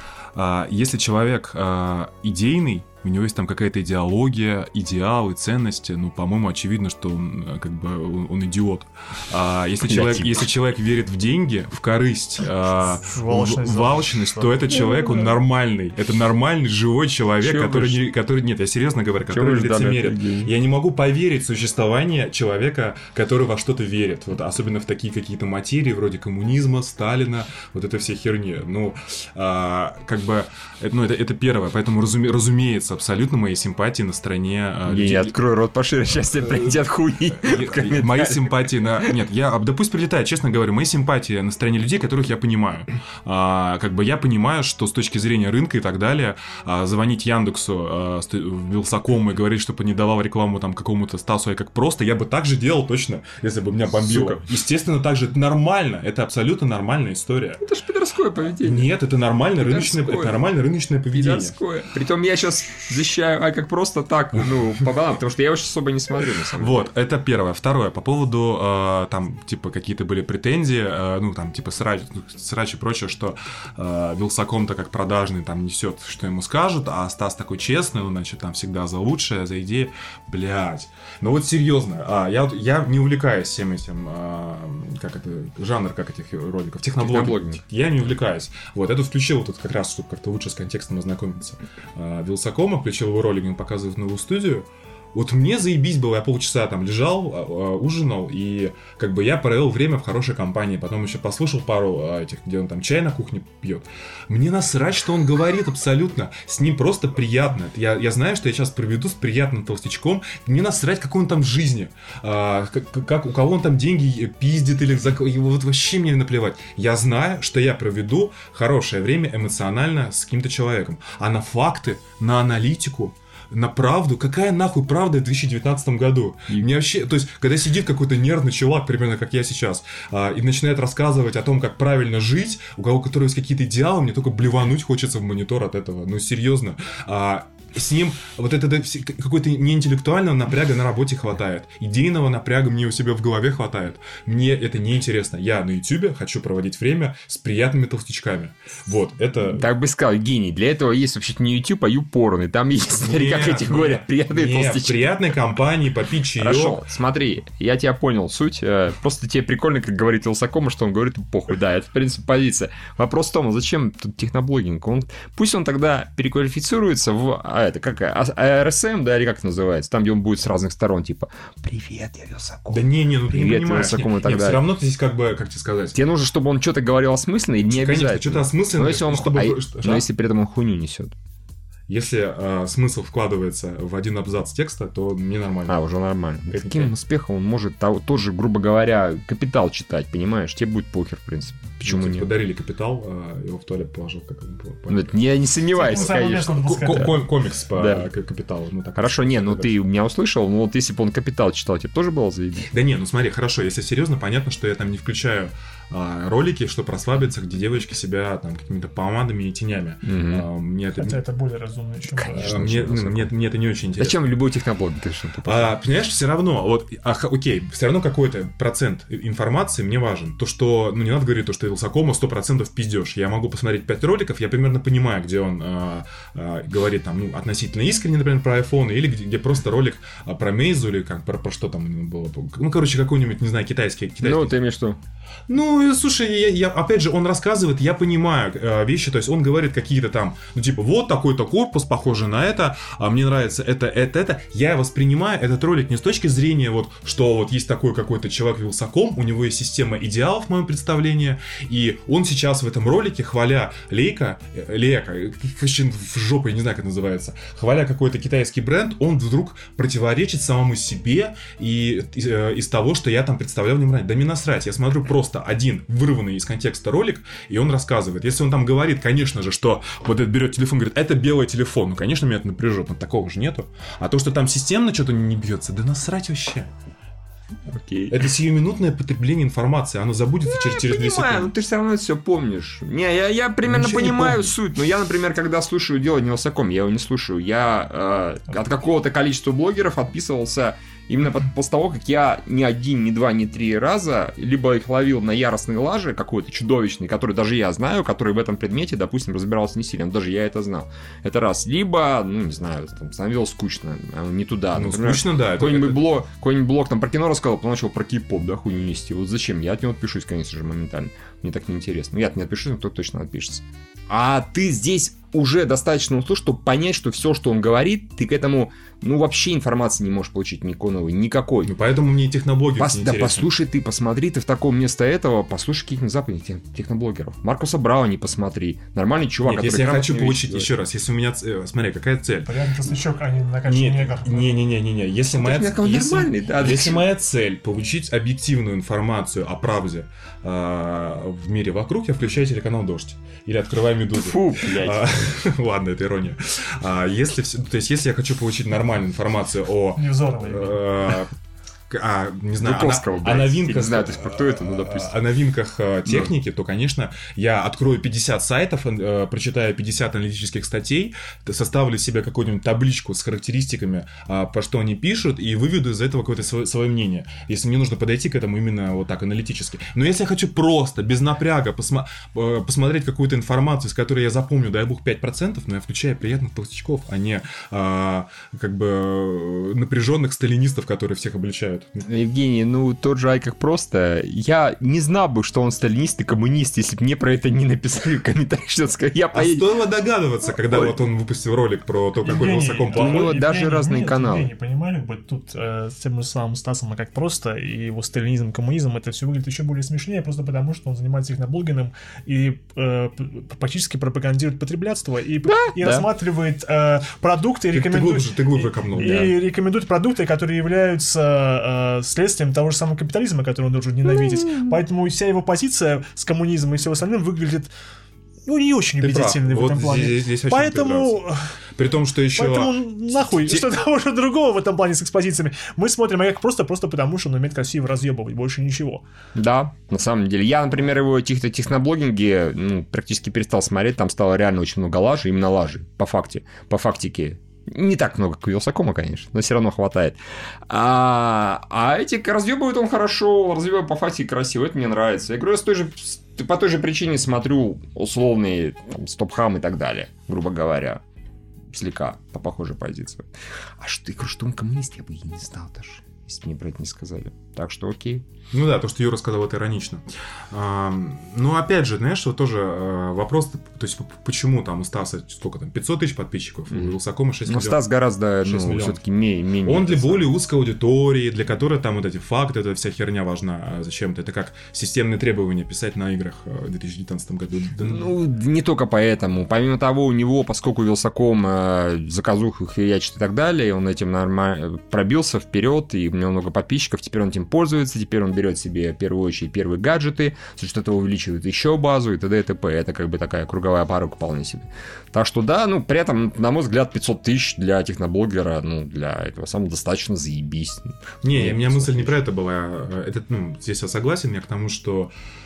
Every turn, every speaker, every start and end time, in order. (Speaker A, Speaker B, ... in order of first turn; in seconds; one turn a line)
Speaker A: 0.3-35.3
Speaker B: 9.8-10.4
Speaker C: 13.0-15.0
Speaker B: 17.4-18.0
Speaker B: 19.3-20.5
Speaker B: 34.9-39.1
Speaker A: 36.4-36.8
Speaker A: 37.4-57.6
Speaker B: 54.0-54.4
Speaker B: 57.6-58.9
Speaker A: 58.6-61.5
Speaker B: 59.6-60.4
Speaker B: 61.1-66.9
Speaker A: 66.6-149.7
Speaker B: 87.0-87.6
Speaker B: 149.5-155.0
Speaker A: 152.9-156.8
Speaker B: 156.4-174.6
Speaker A: 172.7-175.9
Speaker B: 175.9-181.2
Speaker A: 177.6-180.1
Speaker A: 181.9-185.7
Speaker B: 185.7-192.3
Speaker A: 186.5-186.9
Speaker A: 191.8-195.1
Speaker B: 194.9-197.1
Speaker C: 195.7-197.2
Speaker A: 195.9-199.7
Speaker B: 197.7-198.1
Speaker B: 198.9-202.7
Speaker A: 202.7-211.2
Speaker B: 210.0-210.4
Speaker C: 211.0-212.5
Speaker B: 212.2-213.3
Speaker A: 212.3-214.3
Speaker B: 214.0-215.7
Speaker A: 215.4-234.5
Speaker B: 234.2-235.0
Speaker A: 235.5-276.7
Speaker B: 277.7-278.3
Speaker A: 278.1-281.5
Speaker B: 280.5-321.7
Speaker A: 283.6-284.5
Speaker A: 304.7-306.1
Speaker A: 321.6-323.5
Speaker B: 322.8-330.7
Speaker A: 329.4-332.5
Speaker C: 332.4-334.5
Speaker A: 333.7-351.3
Speaker B: 335.3-337.0
Speaker B: 344.1-345.3
Speaker C: 350.0-350.8
Speaker A: 351.9-382.1
Speaker B: 352.6-355.1
Speaker B: 356.1-356.3
Speaker B: 382.1-389.7
Speaker A: 389.3-393.3
Speaker B: 390.6-390.9
Speaker C: 392.2-417.7
Speaker B: 392.9-394.5
Speaker B: 405.4-406.1
Speaker A: 407.7-409.4
Speaker B: 414.2-414.8
Speaker C: 418.4-421.5
Speaker A: 419.0-421.2
Speaker A: 421.8-423.7
Speaker C: 422.3-429.0
Speaker B: 429.3-451.0
Speaker B: 451.7-458.2
Speaker A: 458.5-467.8
Speaker B: 466.7-466.9
Speaker B: 467.4-470.3
Speaker A: 468.4-469.0
Speaker A: 469.6-478.1
Speaker B: 477.8-502.2
Speaker A: 501.2-505.1